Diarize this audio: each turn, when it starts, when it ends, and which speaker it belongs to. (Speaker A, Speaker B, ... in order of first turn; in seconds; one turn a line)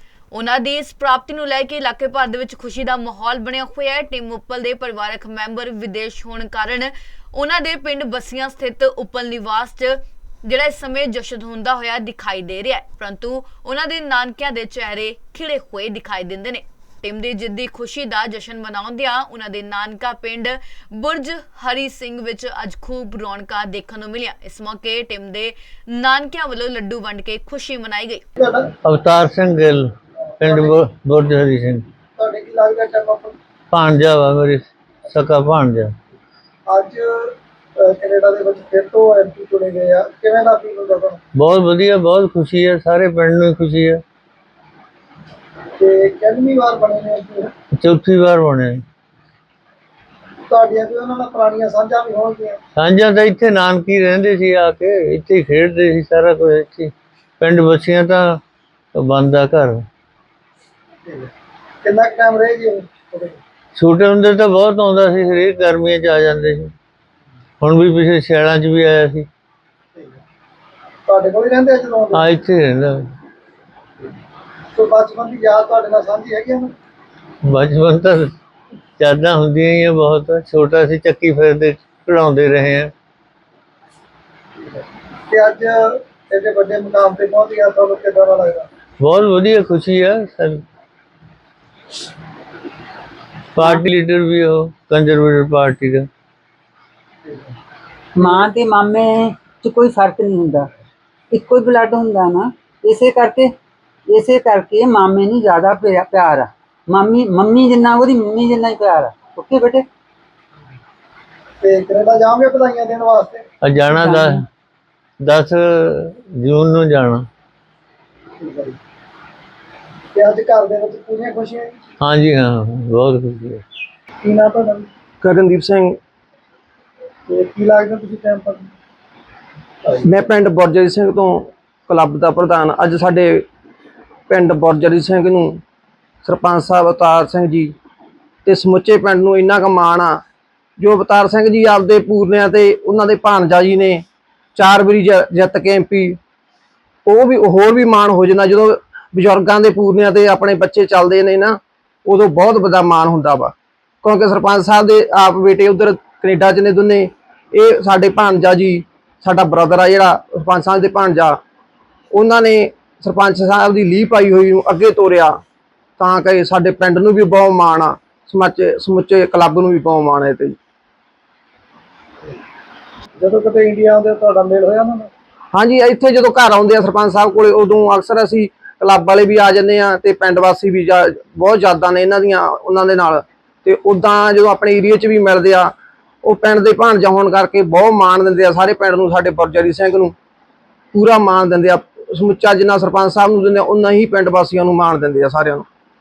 Speaker A: 0.3-28.2
Speaker B: 28.4-28.7
Speaker C: 28.9-29.9
Speaker C: 30.4-31.9
Speaker B: 30.4-30.7
Speaker B: 32.2-33.4
Speaker C: 33.7-35.9
Speaker B: 36.7-41.2
Speaker C: 41.4-44.0
Speaker B: 45.8-47.5
Speaker C: 47.8-48.8
Speaker B: 50.5-52.6
Speaker C: 52.8-58.4
Speaker C: 59.0-59.8
Speaker B: 61.1-61.3
Speaker B: 61.8-63.4
Speaker C: 63.8-66.7
Speaker C: 67.6-69.3
Speaker B: 71.1-72.3
Speaker C: 72.1-73.0
Speaker B: 74.7-76.7
Speaker C: 77.5-78.3
Speaker C: 79.0-82.9
Speaker B: 85.3-88.7
Speaker C: 89.0-90.6
Speaker C: 93.5-96.1
Speaker D: 98.2-100.7
Speaker D: 101.3-103.5
Speaker D: 104.1-109.9
Speaker B: 111.6-113.4
Speaker C: 113.6-114.4
Speaker D: 113.9-114.4
Speaker C: 115.2-117.3
Speaker B: 118.4-118.8
Speaker B: 120.1-121.8
Speaker C: 122.0-123.6
Speaker B: 124.2-124.9
Speaker E: 125.2-126.0
Speaker B: 127.3-128.7
Speaker E: 130.1-133.4
Speaker E: 134.3-135.6
Speaker E: 136.2-137.7
Speaker E: 138.4-140.2
Speaker E: 140.8-144.0
Speaker E: 144.6-146.2
Speaker E: 147.1-161.4
Speaker E: 162.1-165.4
Speaker E: 166.0-170.6
Speaker B: 173.2-175.1
Speaker E: 175.5-190.2
Speaker E: 190.9-195.7